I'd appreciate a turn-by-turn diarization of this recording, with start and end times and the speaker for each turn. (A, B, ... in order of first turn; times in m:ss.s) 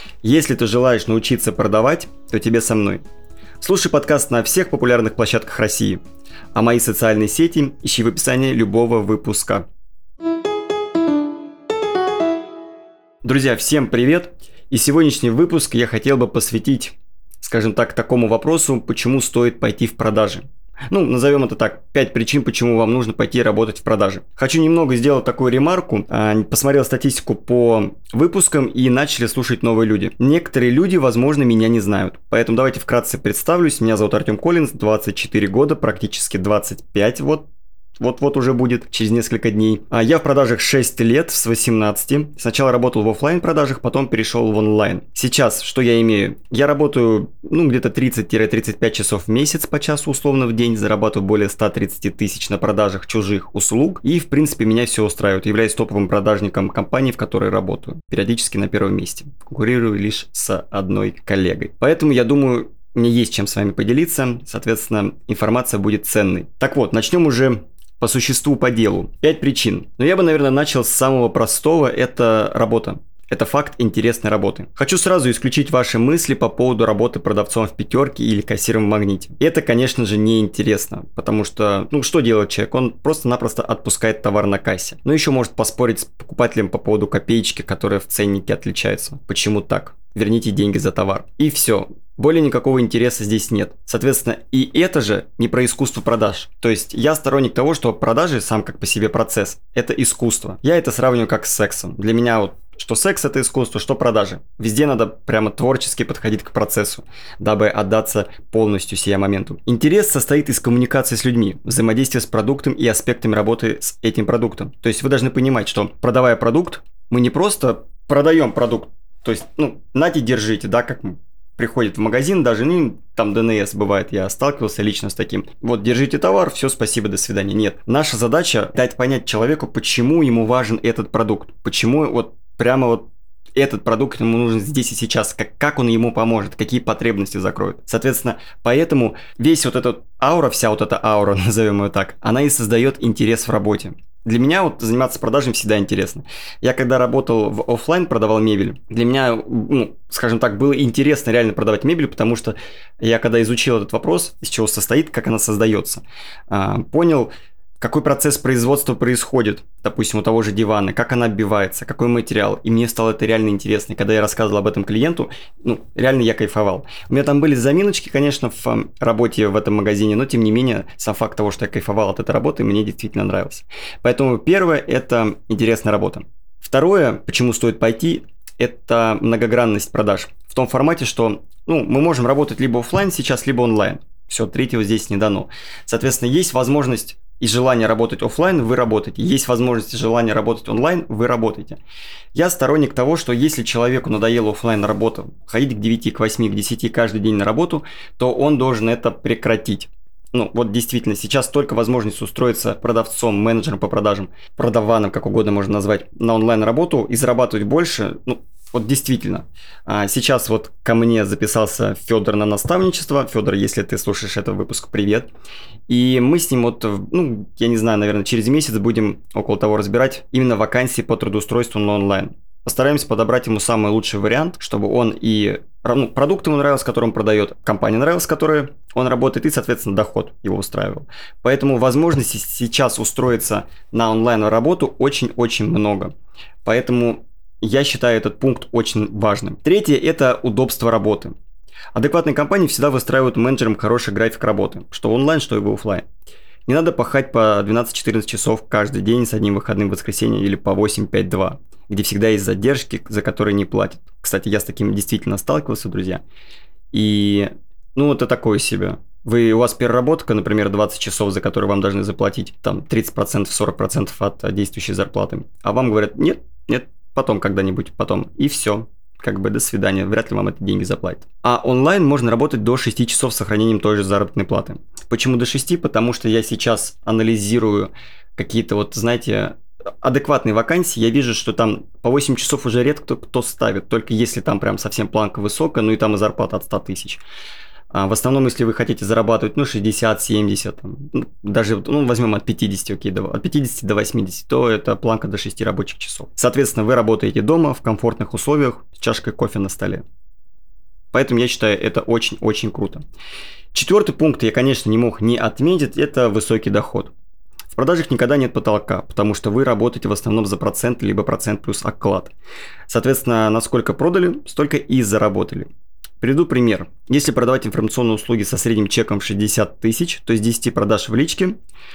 0:00.2-0:03.0 A
0:03.6-0:06.0 A
0:06.5-0:09.7 A
0:13.2-0:37.5 A
0:38.0-3:11.8 A
3:12.3-3:35.3 A
3:35.9-3:56.1 A
3:56.6-4:01.3 A
4:01.9-4:06.1 A
4:06.7-4:16.2 A
4:16.9-4:47.2 A
4:47.9-5:00.0 A
5:01.1-5:03.0 A
5:03.7-5:07.1 A
5:07.7-5:12.3 A
5:12.9-5:15.7 A
5:16.2-5:21.6 A